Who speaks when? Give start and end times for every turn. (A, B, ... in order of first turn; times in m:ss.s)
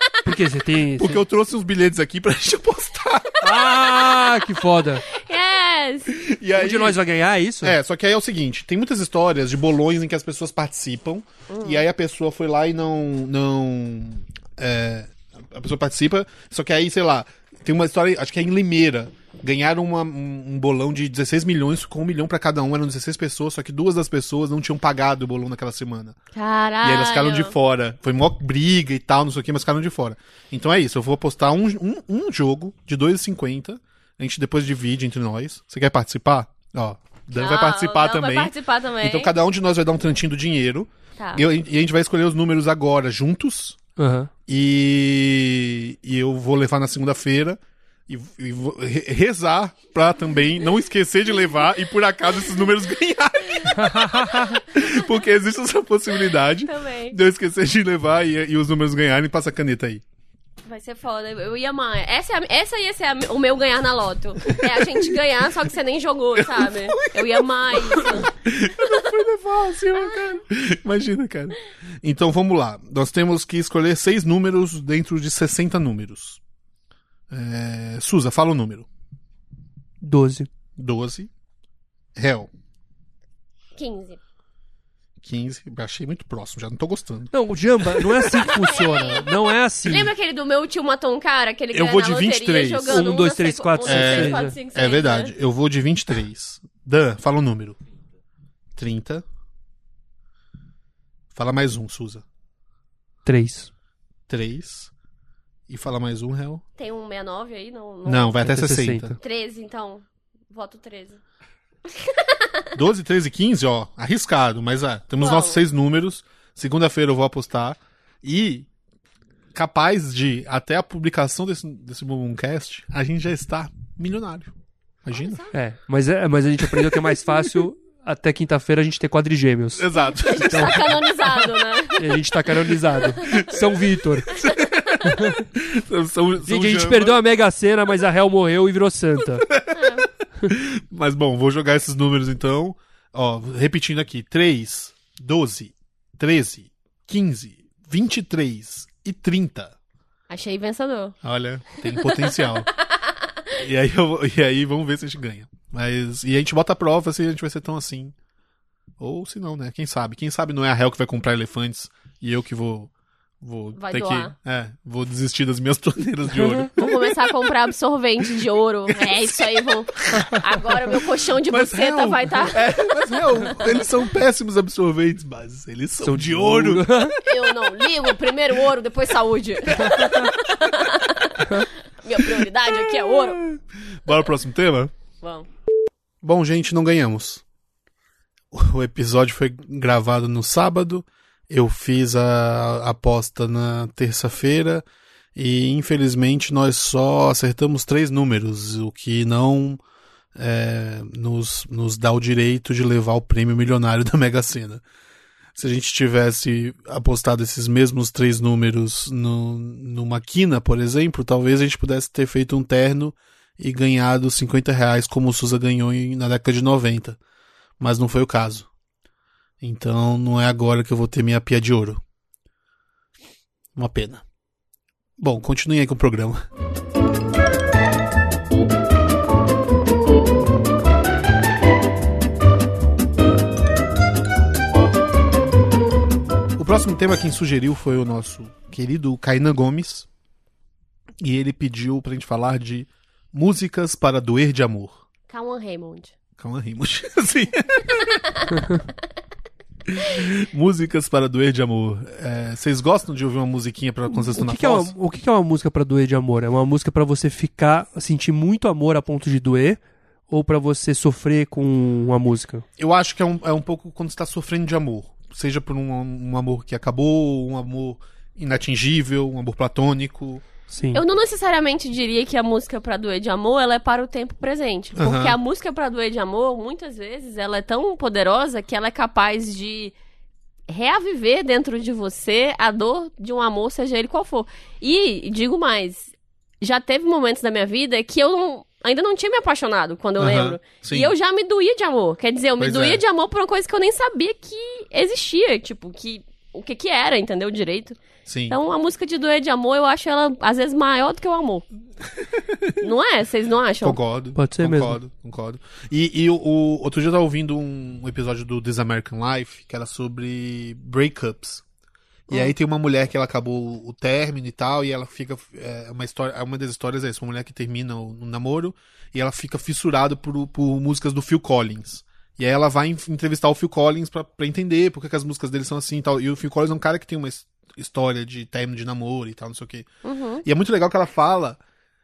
0:00.2-0:01.2 A
0:01.0-0:03.7 B
0:03.4-0:05.0 A
0:05.1-0:06.1 C
0:06.1-0:07.0 B
0:06.6-0:07.8 A
0:07.6-0:26.1 B
0:11.5-0:11.8 C
0:26.3-0:27.5 C
0:26.8-0:43.8 B
0:37.3-0:39.3 C
0:41.2-0:41.4 C
0:44.0-0:44.3 A
0:44.5-1:00.0 B
0:53.7-0:54.6 A
0:54.7-0:55.0 C
0:56.6-0:57.2 C
1:00.6-1:08.3 C
1:04.5-1:05.2 B
1:06.4-1:16.4 B
1:08.8-1:09.1 C
1:10.0-1:10.4 C
1:17.3-1:18.9 B
1:20.0-1:20.5 A
1:20.8-1:21.3 B
1:22.1-1:22.5 B
1:23.8-1:24.2 C
1:25.2-1:28.2 B
1:27.3-1:30.1 A
1:28.3-1:35.3 C
1:31.7-1:33.1 B
1:32.9-1:34.6 A
1:33.8-1:37.8 B
1:38.8-1:39.2 B
1:41.3-1:42.2 B
1:43.2-1:43.7 A
1:44.3-1:44.9 B
1:45.7-1:46.6 B
1:46.8-1:48.3 C
1:48.0-1:49.2 B
1:48.4-1:49.2 A
1:49.2-1:51.2 C
1:51.9-1:52.6 C
1:52.7-1:58.7 B
1:55.2-1:55.6 C
1:59.5-2:05.4 B
2:05.1-2:05.5 C
2:05.5-2:10.8 A
2:06.6-2:07.1 B
2:09.8-2:11.6 B
2:10.0-2:12.3 C
2:12.0-2:14.3 A
2:13.2-2:13.4 C
2:13.2-2:13.7 B
2:14.3-2:17.2 B
2:14.3-2:14.9 C
2:15.0-2:15.4 A
2:16.4-2:19.5 A
2:19.4-2:19.9 B
2:19.7-2:20.1 C
2:20.4-2:29.7 B
2:30.3-2:31.2 C
2:31.2-2:32.7 B
2:31.8-2:33.1 C
2:33.5-2:38.1 B
2:39.0-2:47.3 B
2:43.8-2:44.3 C
2:46.7-2:52.6 C
2:48.3-2:50.4 B
2:50.9-2:57.2 B
2:56.0-2:57.2 A
2:57.2-3:03.5 C
2:59.7-3:00.5 B
3:02.2-3:04.9 B
3:05.2-3:05.5 C
3:06.2-3:07.4 B
3:08.5-3:19.8 B
3:20.3-3:24.8 B
3:25.6-3:37.2 B
3:37.8-3:38.7 B
3:39.6-3:42.0 B
3:43.8-3:44.2 B
3:45.2-3:46.4 B
3:56.6-4:00.1 B
4:01.2-4:05.0 B
4:05.3-4:06.1 C
4:06.4-4:08.2 B
4:08.5-4:08.8 A
4:09.9-4:14.9 B
4:14.1-4:22.6 A
4:22.8-4:30.4 B
4:30.7-4:31.0 A
4:30.9-4:39.9 C
4:35.0-4:35.4 B
4:40.7-5:01.6 C
4:50.2-4:51.1 B
4:52.6-4:53.0 B
4:58.2-4:58.6 B
5:02.2-5:02.8 B
5:02.8-5:04.0 C
5:03.8-5:11.6 B
5:04.4-5:05.0 A
5:12.3-5:29.9 B
5:30.0-5:30.4 C
5:30.4-5:31.6 B